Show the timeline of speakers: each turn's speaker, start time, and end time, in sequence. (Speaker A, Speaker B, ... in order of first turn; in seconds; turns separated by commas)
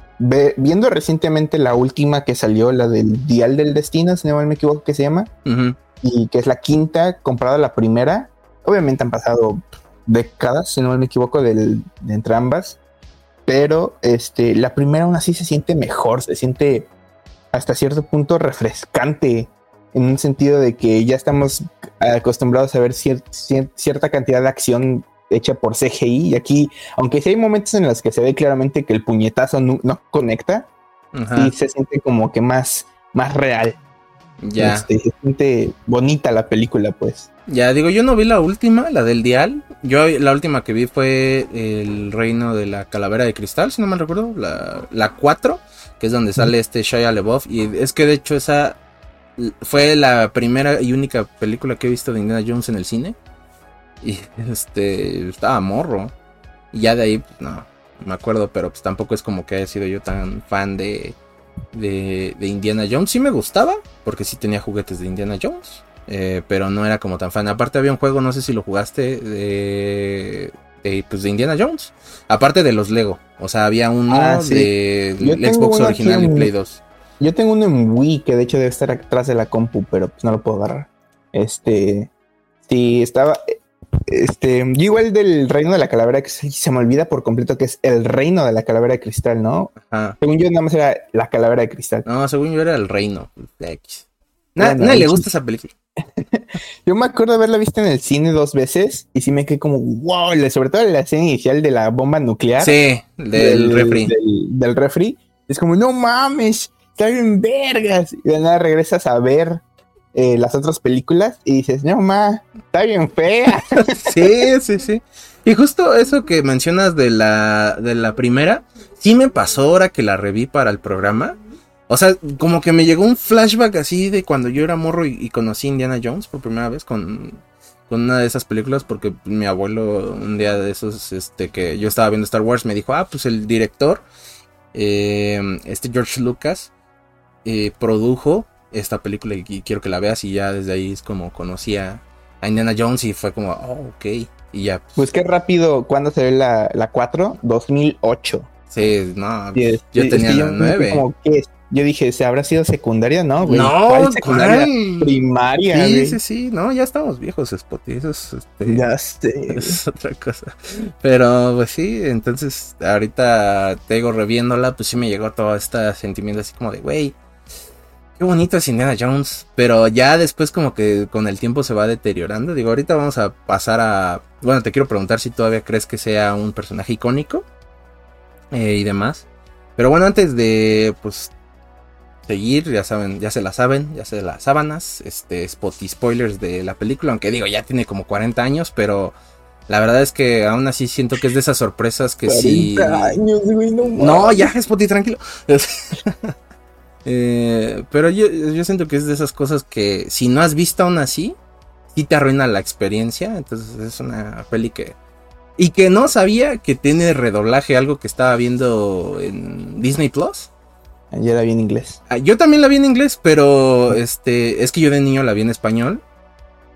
Speaker A: 0.2-5.3, Speaker B: 5.5-5.8, Speaker A: 6.0-12.8, Speaker A: 13.5-16.9, Speaker A: 17.5-30.7, Speaker B: 31.1-31.5, Speaker A: 31.4-33.8, Speaker B: 34.4-34.9, Speaker A: 34.6-37.3, Speaker B: 37.5-48.8, Speaker B: 49.4-53.2, Speaker B: 54.0-56.1, Speaker B: 56.7-61.2, Speaker B: 61.7-76.8, Speaker A: 74.1-76.5, Speaker A: 77.2-82.1, Speaker A: 82.7-83.5, Speaker A: 84.1-92.1, Speaker B: 89.8-90.2, Speaker B: 92.0-95.7, Speaker A: 94.6-95.2, Speaker A: 96.2-102.8, Speaker B: 102.6-104.1, Speaker A: 103.3-109.6, Speaker A: 110.1-114.3, Speaker B: 113.8-121.4, Speaker B: 121.9-134.1, Speaker B: 134.7-136.7, Speaker B: 137.4-144.9, Speaker A: 145.0-148.5, Speaker B: 148.7-151.0, Speaker A: 149.6-156.2, Speaker B: 153.4-155.2, Speaker B: 155.7-158.8, Speaker A: 158.7-159.8, Speaker B: 159.5-167.2, Speaker B: 168.2-177.4, Speaker B: 178.5-179.2, Speaker B: 179.8-181.3, Speaker B: 182.3-189.2, Speaker B: 189.7-193.2, Speaker A: 192.2-194.5, Speaker B: 193.9-196.3, Speaker B: 197.1-201.3, Speaker B: 201.9-205.0, Speaker B: 205.6-210.5, Speaker A: 211.1-212.0, Speaker B: 212.1-216.0